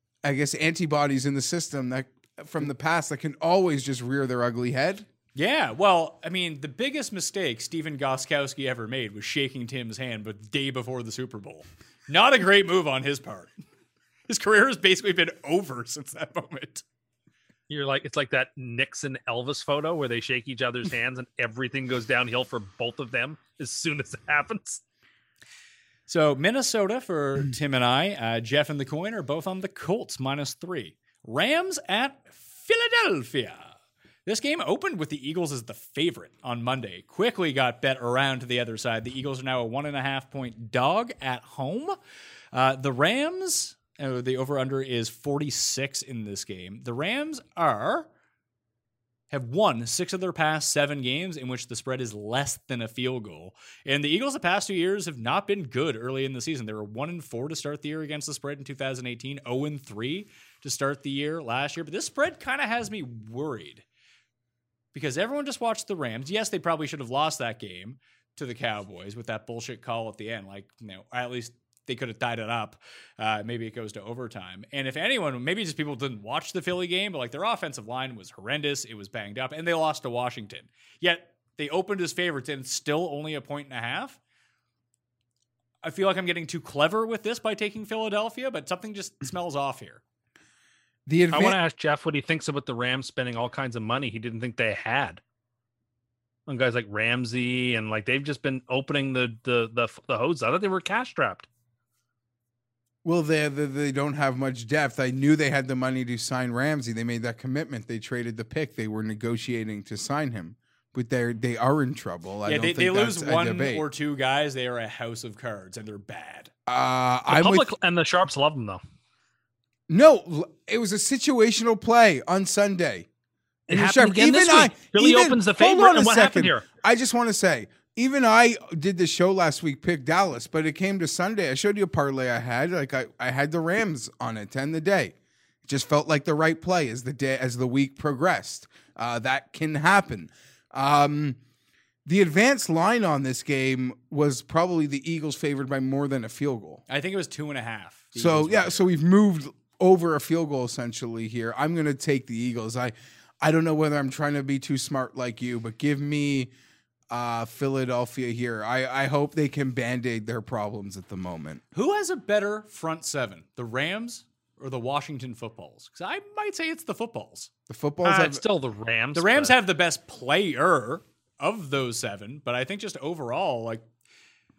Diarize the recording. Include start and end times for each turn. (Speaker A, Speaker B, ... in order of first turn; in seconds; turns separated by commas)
Speaker A: 0.2-5.1, Speaker B: 5.4-13.6, Speaker B: 14.3-16.8, Speaker C: 17.7-24.8, Speaker B: 26.1-33.7, Speaker B: 34.3-42.0, Speaker B: 42.5-48.1, Speaker B: 49.3-63.8, Speaker B: 64.9-84.2, Speaker B: 85.8-90.0, Speaker A: 91.1-91.6, Speaker C: 91.3-95.2, Speaker C: 96.5-101.5, Speaker A: 103.0-113.8, Speaker B: 112.5-116.5, Speaker A: 116.7-117.7, Speaker C: 117.3-118.8, Speaker A: 119.9-123.1, Speaker A: 123.7-141.4, Speaker C: 123.7-126.7, Speaker A: 142.1-146.8, Speaker B: 146.9-148.9, Speaker A: 148.2-156.5, Speaker A: 157.1-161.6, Speaker B: 161.7-167.5, Speaker A: 167.7-168.4, Speaker C: 168.0-169.6, Speaker B: 169.2-173.9